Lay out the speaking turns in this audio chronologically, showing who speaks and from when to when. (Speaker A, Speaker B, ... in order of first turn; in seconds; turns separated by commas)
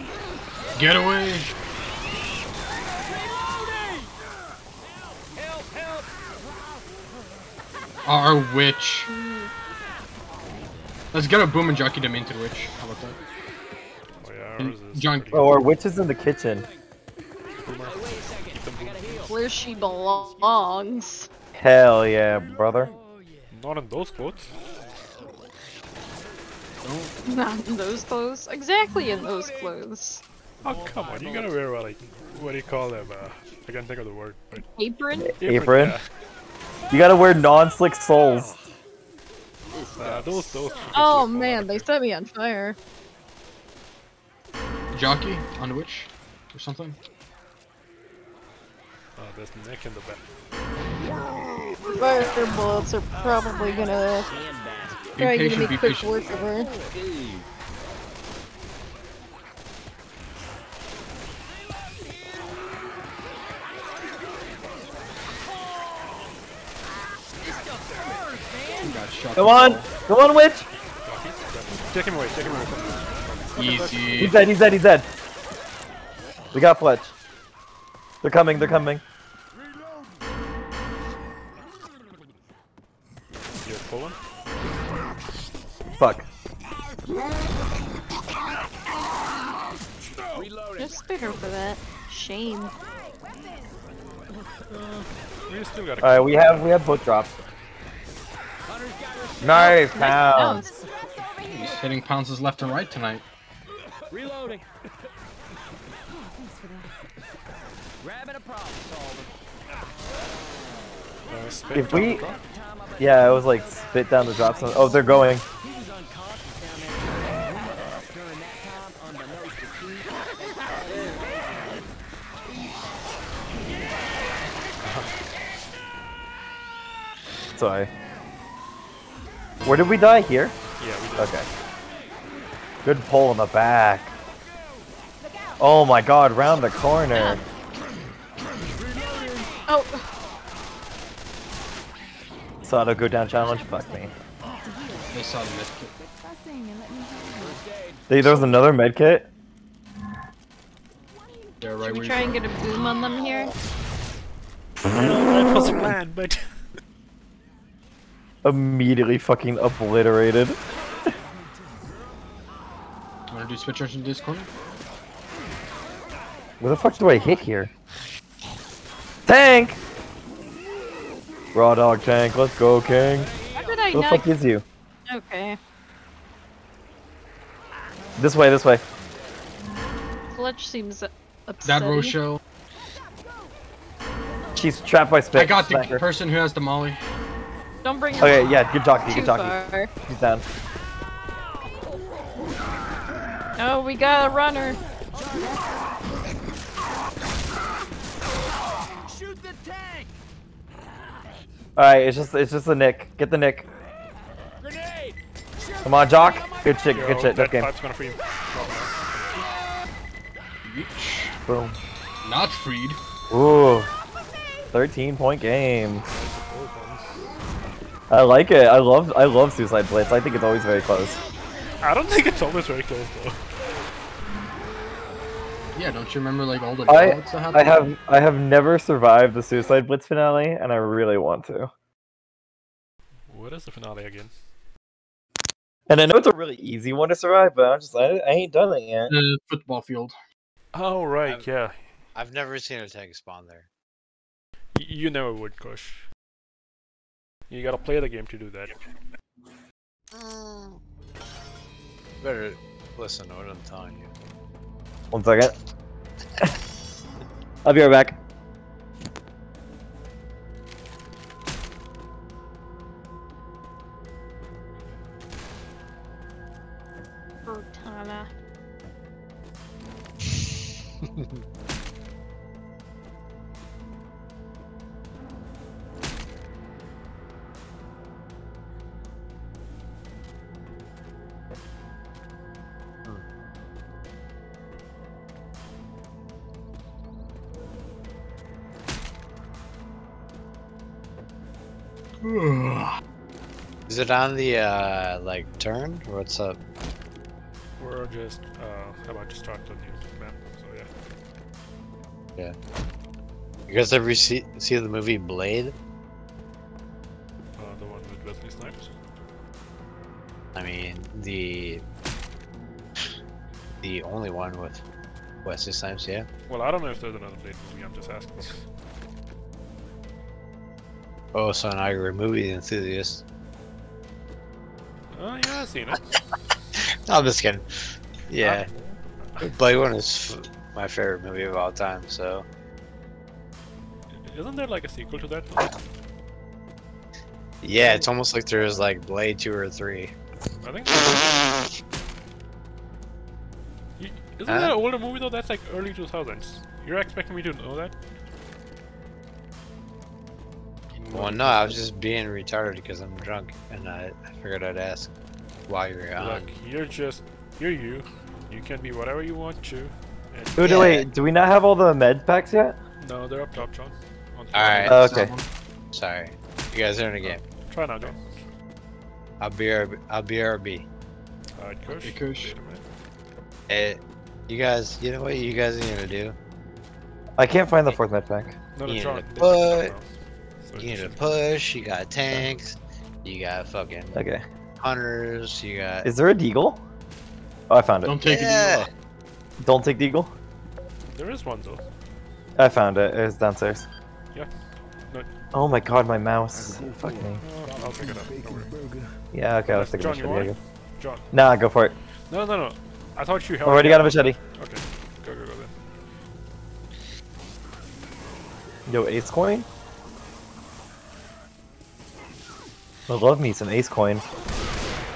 Speaker A: 0.8-1.5, Speaker A: 8.1-9.1, Speaker B: 9.1-9.5, Speaker C: 10.4-10.9, Speaker A: 11.1-13.2, Speaker D: 14.2-15.7, Speaker A: 14.6-15.6, Speaker E: 15.3-16.7, Speaker D: 17.6-19.3, Speaker C: 17.7-19.4, Speaker B: 19.3-21.3, Speaker E: 21.6-22.9, Speaker C: 22.7-23.5, Speaker D: 23.5-24.5, Speaker A: 26.8-27.1, Speaker B: 27.3-30.2, Speaker C: 30.6-33.1, Speaker D: 30.6-34.6, Speaker B: 34.8-35.3, Speaker E: 35.2-36.0, Speaker D: 35.4-36.0, Speaker E: 36.9-38.5, Speaker C: 38.3-38.6, Speaker C: 39.7-41.0, Speaker D: 40.0-41.9, Speaker B: 40.9-42.8, Speaker A: 44.9-47.0, Speaker D: 49.2-50.2, Speaker B: 51.9-54.3, Speaker C: 53.5-57.5, Speaker A: 55.2-56.2, Speaker B: 55.2-56.7, Speaker C: 67.4-69.0, Speaker A: 68.8-69.9, Speaker E: 69.3-70.7, Speaker D: 71.0-74.4, Speaker A: 73.6-74.4, Speaker E: 74.2-75.1, Speaker E: 76.5-77.1, Speaker E: 78.2-79.0, Speaker D: 83.6-84.2, Speaker E: 86.0-86.3, Speaker C: 90.3-91.3, Speaker B: 90.8-92.7, Speaker F: 93.2-93.7, Speaker D: 94.7-96.8, Speaker E: 96.0-97.3, Speaker C: 98.7-99.8, Speaker E: 99.4-100.7, Speaker B: 99.5-100.7, Speaker A: 101.5-103.2, Speaker C: 104.1-104.7, Speaker F: 106.1-107.0, Speaker C: 108.0-109.3, Speaker D: 111.3-112.4, Speaker C: 111.7-121.8, Speaker E: 111.7-112.2, Speaker E: 113.0-115.4, Speaker D: 124.8-125.1, Speaker E: 127.6-127.9, Speaker E: 129.7-130.5, Speaker D: 130.8-131.4, Speaker E: 131.2-131.4, Speaker E: 132.8-134.1, Speaker E: 135.6-137.4, Speaker B: 137.1-137.4, Speaker B: 139.7-140.0, Speaker E: 142.7-144.1, Speaker F: 143.3-145.4, Speaker A: 145.1-145.9, Speaker F: 146.0-147.6, Speaker C: 147.3-148.6, Speaker E: 148.1-149.3, Speaker F: 151.1-151.7, Speaker A: 151.6-152.4, Speaker B: 151.8-153.5, Speaker F: 152.3-153.5, Speaker D: 154.8-156.4, Speaker E: 158.4-160.6, Speaker A: 163.3-164.5, Speaker E: 166.6-167.7, Speaker E: 169.3-169.8, Speaker E: 171.5-173.3, Speaker C: 173.1-174.0, Speaker B: 173.5-174.3, Speaker E: 173.9-174.6, Speaker B: 175.1-175.6, Speaker E: 178.2-178.8, Speaker B: 180.3-182.2, Speaker A: 181.7-182.4, Speaker E: 184.6-186.0, Speaker A: 185.3-187.0, Speaker B: 187.8-189.9, Speaker E: 188.2-190.4, Speaker B: 193.6-194.8, Speaker C: 195.1-195.6, Speaker C: 198.9-200.1, Speaker E: 201.8-203.7, Speaker C: 204.6-205.2, Speaker C: 205.7-206.7, Speaker E: 205.8-207.7, Speaker D: 206.9-209.4, Speaker A: 210.6-211.3, Speaker E: 211.5-211.8, Speaker A: 212.2-213.0, Speaker E: 213.3-213.9, Speaker E: 214.7-216.0, Speaker D: 216.1-217.1, Speaker E: 218.1-221.2, Speaker D: 221.8-223.4, Speaker A: 225.8-227.9, Speaker E: 226.9-231.7, Speaker D: 233.3-234.3, Speaker E: 235.9-239.1, Speaker A: 239.1-240.2, Speaker D: 240.7-241.8, Speaker G: 242.2-243.7, Speaker D: 244.8-246.0, Speaker D: 247.5-248.8, Speaker G: 250.1-250.8, Speaker G: 252.2-254.1, Speaker E: 255.1-255.5, Speaker E: 257.6-258.2, Speaker B: 267.5-268.3, Speaker A: 292.2-293.0, Speaker G: 293.9-296.6, Speaker D: 297.8-300.9, Speaker G: 303.7-305.8, Speaker D: 307.6-308.9, Speaker G: 310.6-311.9, Speaker G: 313.8-314.8, Speaker G: 315.4-316.3, Speaker D: 316.5-318.6, Speaker G: 321.3-323.2, Speaker D: 325.1-326.0, Speaker G: 327.1-327.6, Speaker G: 328.3-328.7, Speaker G: 329.4-332.5, Speaker D: 334.3-335.7, Speaker G: 337.6-340.1, Speaker D: 338.6-338.9, Speaker D: 340.6-341.5, Speaker G: 340.9-341.6, Speaker D: 344.0-347.9, Speaker G: 344.5-344.7, Speaker A: 350.9-351.8, Speaker G: 351.1-355.1, Speaker G: 355.7-356.5, Speaker D: 356.2-360.9, Speaker E: 360.6-362.8, Speaker G: 360.6-361.1, Speaker D: 363.0-365.1, Speaker G: 364.5-365.3, Speaker E: 364.9-365.3, Speaker A: 364.9-365.4, Speaker G: 365.9-367.4, Speaker D: 367.2-368.2, Speaker G: 369.4-370.9, Speaker D: 371.6-372.8, Speaker A: 371.9-372.5, Speaker G: 373.7-376.4, Speaker E: 377.4-378.5, Speaker D: 378.8-380.1, Speaker G: 378.9-379.9, Speaker D: 380.6-381.2, Speaker G: 380.8-384.3, Speaker E: 384.1-384.4, Speaker G: 384.8-386.1, Speaker E: 386.0-386.8, Speaker E: 387.7-388.9, Speaker A: 388.0-388.9, Speaker E: 389.6-390.3, Speaker D: 391.1-391.9, Speaker E: 392.6-393.9, Speaker E: 395.5-397.4, Speaker D: 397.4-398.7, Speaker E: 399.3-400.6, Speaker D: 399.7-401.3, Speaker E: 401.3-401.9, Speaker D: 402.3-405.8, Speaker E: 403.6-404.4, Speaker E: 408.9-409.7, Speaker E: 413.1-414.2